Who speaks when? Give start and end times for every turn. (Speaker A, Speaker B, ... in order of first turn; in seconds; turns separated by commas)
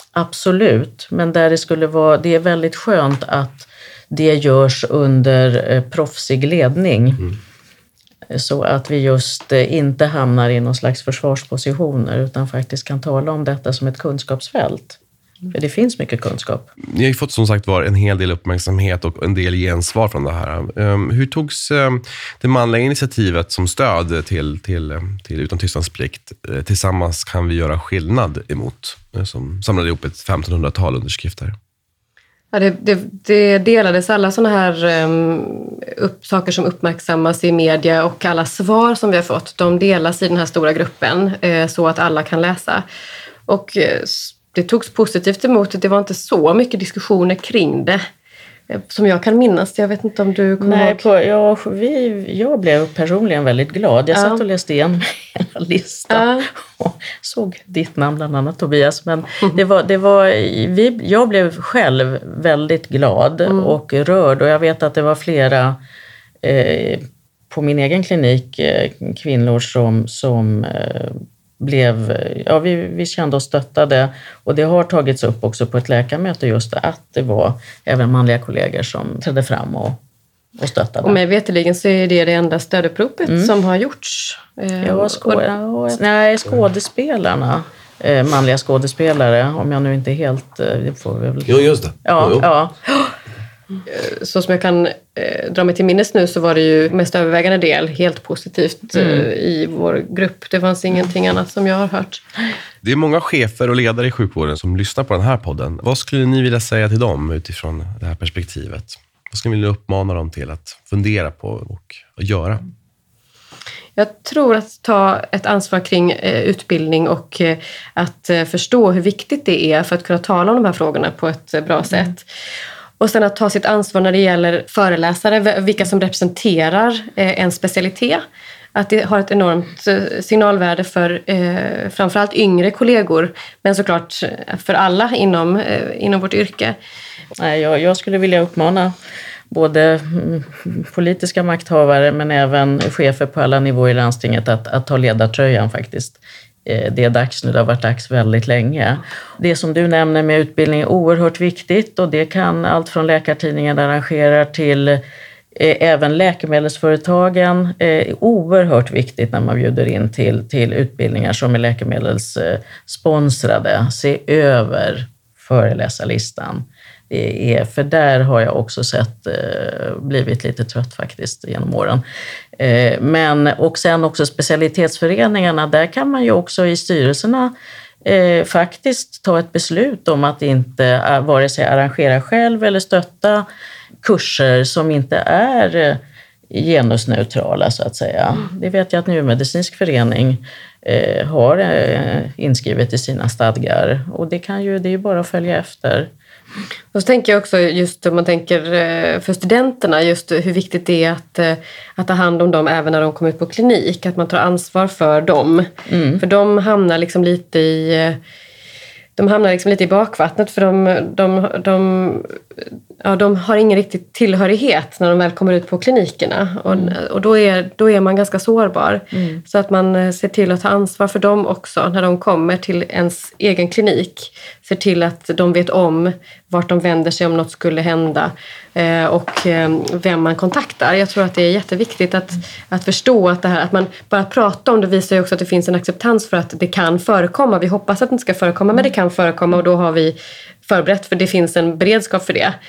Speaker A: 0.1-7.3, Speaker A: 8.3-15.0, Speaker A: 15.5-16.7, Speaker B: 16.8-31.6, Speaker C: 32.5-42.9, Speaker C: 43.5-48.0, Speaker C: 48.7-51.0, Speaker A: 50.6-65.8, Speaker C: 54.1-54.4, Speaker C: 56.1-56.5, Speaker C: 63.5-63.7, Speaker A: 66.4-80.0, Speaker A: 80.6-81.2, Speaker C: 81.0-85.5, Speaker A: 83.3-83.5, Speaker A: 84.8-93.1, Speaker B: 91.5-92.5, Speaker C: 93.9-102.2, Speaker A: 98.9-99.3, Speaker B: 102.8-112.6, Speaker C: 114.0-122.2, Speaker C: 123.0-128.2, Speaker C: 128.7-136.8, Speaker A: 137.4-138.9, Speaker A: 139.5-155.0, Speaker A: 155.6-172.0, Speaker A: 172.6-177.5, Speaker A: 178.0-183.4, Speaker A: 184.0-196.1, Speaker C: 196.9-205.7, Speaker A: 205.9-206.2, Speaker C: 206.2-208.2, Speaker C: 209.2-212.4, Speaker C: 213.0-242.6, Speaker A: 216.7-216.9, Speaker A: 219.1-219.4